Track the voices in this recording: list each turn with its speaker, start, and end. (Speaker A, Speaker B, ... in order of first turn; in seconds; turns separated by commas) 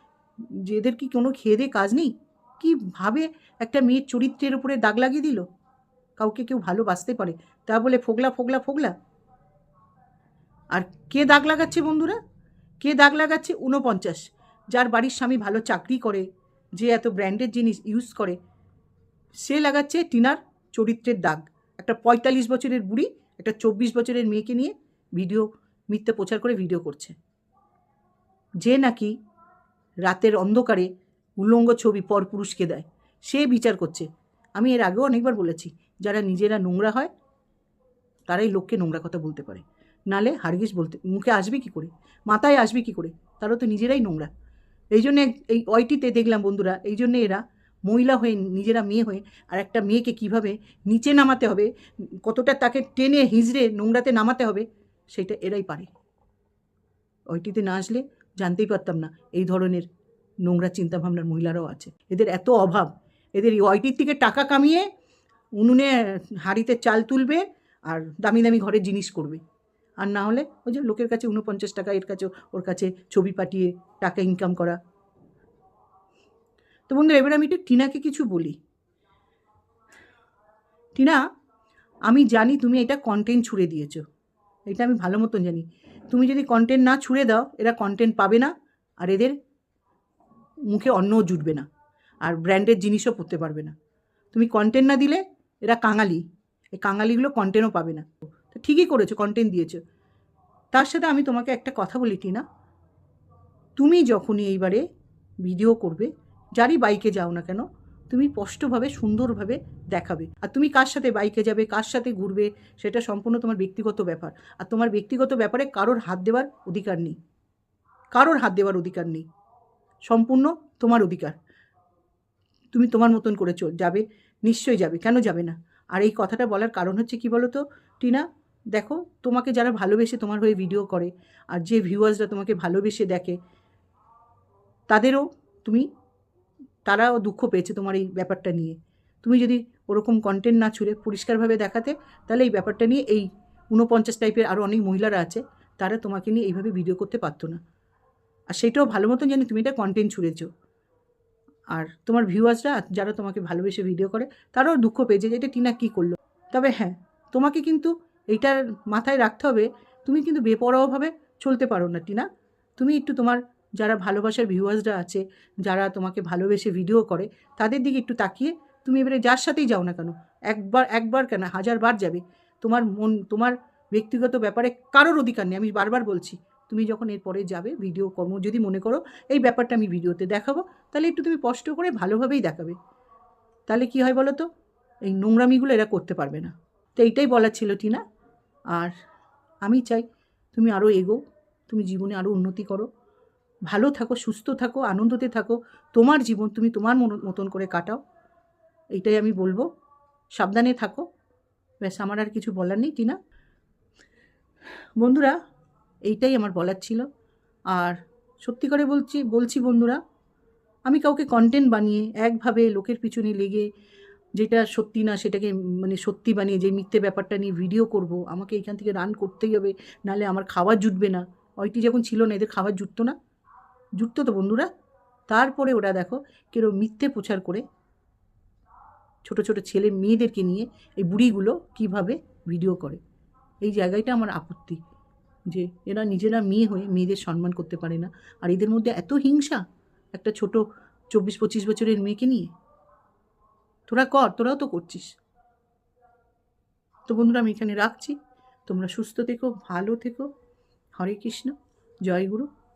Speaker A: 0.5-5.4, Speaker A: 6.2-8.9, Speaker A: 10.7-12.2, Speaker A: 12.8-16.2, Speaker A: 16.8-18.4, Speaker A: 19.4-27.1, Speaker A: 28.6-29.1, Speaker A: 30.1-30.9, Speaker A: 31.4-37.1, Speaker A: 38.3-44.3, Speaker A: 44.9-51.7, Speaker A: 52.2-55.9, Speaker A: 57.3-59.9, Speaker A: 60.4-64.8, Speaker A: 65.6-69.4, Speaker A: 70.0-74.8, Speaker A: 76.9-78.6, Speaker A: 82.0-84.0, Speaker A: 84.7-89.3, Speaker A: 90.7-91.7, Speaker A: 92.2-93.7, Speaker A: 94.3-96.2, Speaker A: 96.8-99.8, Speaker A: 100.7-102.4, Speaker A: 103.8-104.8, Speaker A: 105.4-117.2, Speaker A: 118.1-119.2, Speaker A: 120.1-121.3, Speaker A: 122.7-133.4, Speaker A: 134.9-135.9, Speaker A: 136.8-147.6, Speaker A: 148.5-150.5, Speaker A: 151.7-162.3, Speaker A: 162.8-182.8, Speaker A: 183.7-184.4, Speaker A: 185.1-188.0, Speaker A: 189.6-192.9, Speaker A: 193.7-198.0, Speaker A: 198.9-199.7, Speaker A: 200.4-201.0, Speaker A: 201.8-203.2, Speaker A: 205.0-205.4, Speaker A: 206.1-207.0, Speaker A: 207.7-210.0, Speaker A: 210.9-213.7, Speaker A: 214.4-223.1, Speaker A: 224.0-224.7, Speaker A: 225.3-227.6, Speaker A: 229.2-233.0, Speaker A: 233.6-234.8, Speaker A: 235.5-239.6, Speaker A: 240.1-242.5, Speaker A: 243.9-245.1, Speaker A: 247.1-250.3, Speaker A: 251.0-251.5, Speaker A: 252.0-252.5